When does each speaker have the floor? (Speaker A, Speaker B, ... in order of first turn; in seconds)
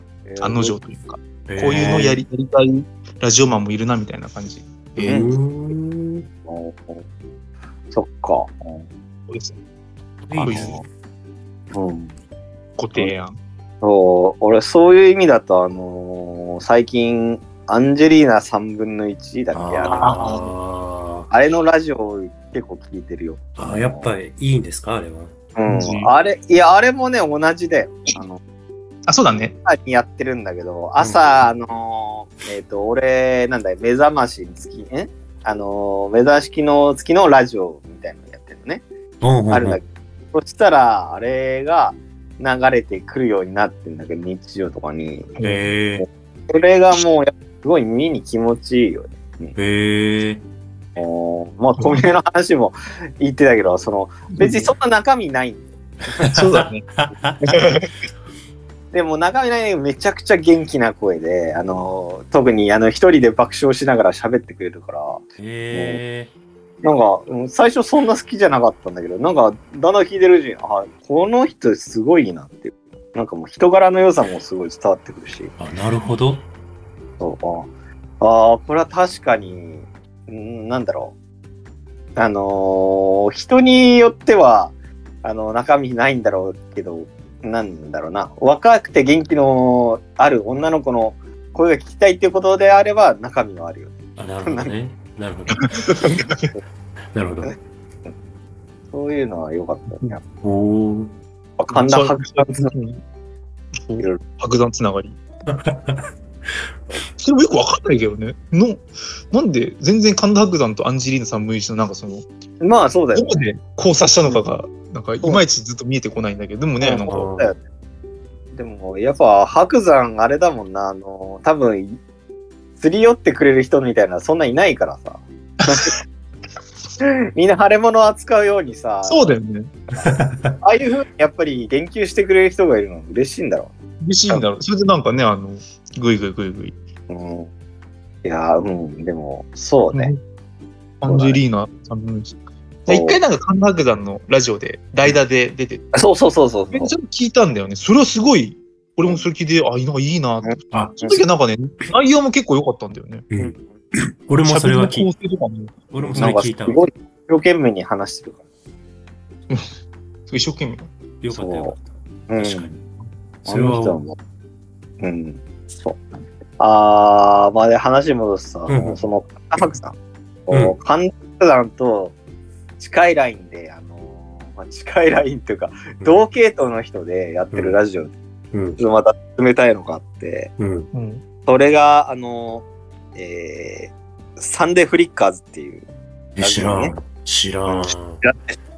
Speaker A: 0.2-0.8, 5.0-5.4, 6.5-7.0, 7.9-8.9, 10.3-10.8, 11.7-12.1, 13.8-20.1, 21.3-24.1, 25.5-28.4, 29.6-38.8, 39.5-45.4, 46.0-49.5, 51.0-55.6, 58.9-66.0, 66.8-75.5, 77.2-81.1, 82.2-94.7, 98.9-100.2, 101.6-102.7, 112.6-113.4, 116.8-117.6, 118.5-122.0, 122.8-126.0, 127.0-129.3, 129.9-133.7, 137.1-137.5, 138.2-140.1, 141.1-141.4, 142.9-143.2, 145.9-146.9, 150.4-151.2, 156.2-158.4, 161.3-161.7, 162.3-162.8, 163.5-164.2, 165.0-166.1, 166.6-169.9, 170.5-172.2, 172.8-178.1, 178.8-180.5, 181.4-185.8, 186.4-186.9, 187.7-188.6
Speaker B: 0.4-5.2, 9.3-9.6, 10.4-10.8, 12.8-13.4, 20.0-20.5, 25.7-26.1, 29.1-29.5, 45.4-45.7, 51.8-52.0, 54.3-54.7, 56.2-56.8, 57.5-57.9, 95.8-96.5, 101.7-103.0, 103.7-105.2, 107.2-112.2, 113.1-117.3, 125.7-125.9, 129.0-129.7, 134.0-136.8, 139.9-140.2, 141.0-142.3, 142.9-145.8, 146.7-153.2, 154.4-156.4, 160.3-160.9, 180.9-181.2
Speaker C: 1.5-2.2, 5.0-6.3, 10.2-10.8, 19.5-21.3, 23.6-25.3, 31.0-31.4, 39.2-39.8, 45.4-46.0, 49.5-50.4, 56.1-57.6, 65.4-66.3, 75.6-76.5, 94.2-96.0, 97.1-97.5, 100.4-101.1, 105.5-106.6, 117.0-117.5, 130.0-130.6, 150.7-151.0, 153.3-155.1, 155.9-156.9, 161.2-162.8, 163.4-164.0, 168.7-169.0, 170.5-170.8, 177.5-177.8, 178.5-178.8, 180.6-180.9, 186.3-188.2